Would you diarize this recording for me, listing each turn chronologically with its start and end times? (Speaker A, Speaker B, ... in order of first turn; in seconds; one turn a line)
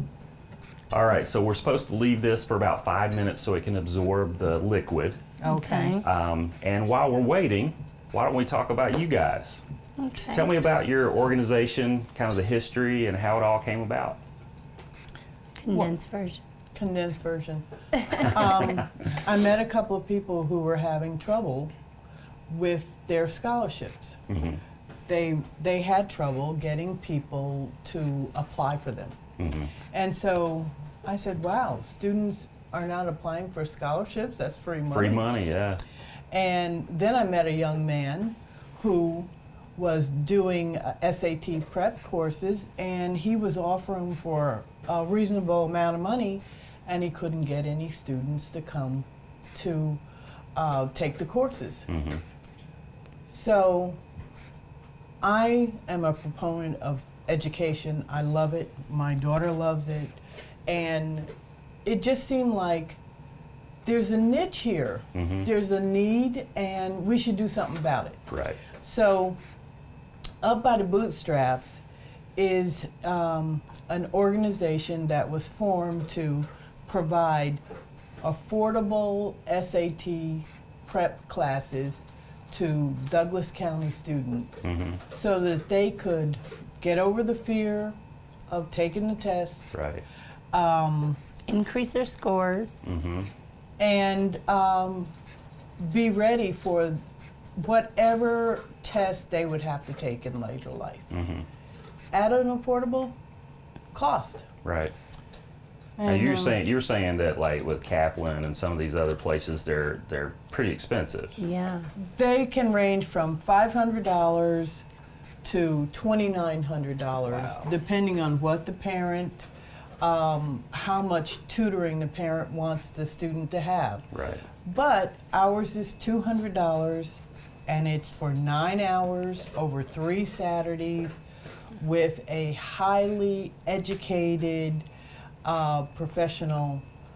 Speaker A: 0.9-5.2
Speaker B: 5.4-6.0
Speaker C: 5.5-6.0
Speaker A: 6.0-9.6
Speaker C: 10.0-10.5
Speaker A: 10.3-14.2
Speaker C: 15.6-16.4
Speaker B: 16.7-21.7
Speaker B: 22.5-24.2
Speaker A: 24.3-24.6
Speaker B: 25.1-29.2
Speaker A: 29.4-29.7
Speaker B: 29.9-35.2
Speaker A: 34.9-35.8
Speaker B: 36.3-50.0
Speaker B: 50.5-51.9
Speaker A: 51.9-52.2
Speaker B: 53.3-54.0
Speaker B: 55.2-61.3
Speaker B: 61.8-63.0
Speaker B: 63.8-69.4
Speaker A: 65.1-65.5
Speaker A: 68.3-68.6
Speaker B: 70.4-71.8
Speaker B: 72.3-77.6
Speaker B: 78.2-88.0
Speaker A: 84.6-85.0
Speaker B: 88.5-89.7
Speaker A: 89.7-90.0
Speaker B: 90.5-91.2
Speaker C: 91.5-92.9
Speaker A: 92.8-93.3
Speaker B: 93.8-95.1
Speaker B: 95.8-97.0
Speaker B: 97.5-101.1
Speaker A: 101.1-101.5
Speaker B: 102.1-103.2
Speaker B: 103.9-104.5
Speaker A: 104.6-104.9
Speaker B: 106.0-106.6
Speaker A: 106.0-111.4
Speaker C: 111.4-111.9
Speaker B: 112.0-114.8
Speaker B: 115.4-119.5
Speaker A: 117.3-117.7
Speaker B: 120.0-124.0
Speaker A: 124.1-124.4
Speaker B: 124.6-131.2
Speaker B: 131.8-134.8
Speaker B: 135.4-136.8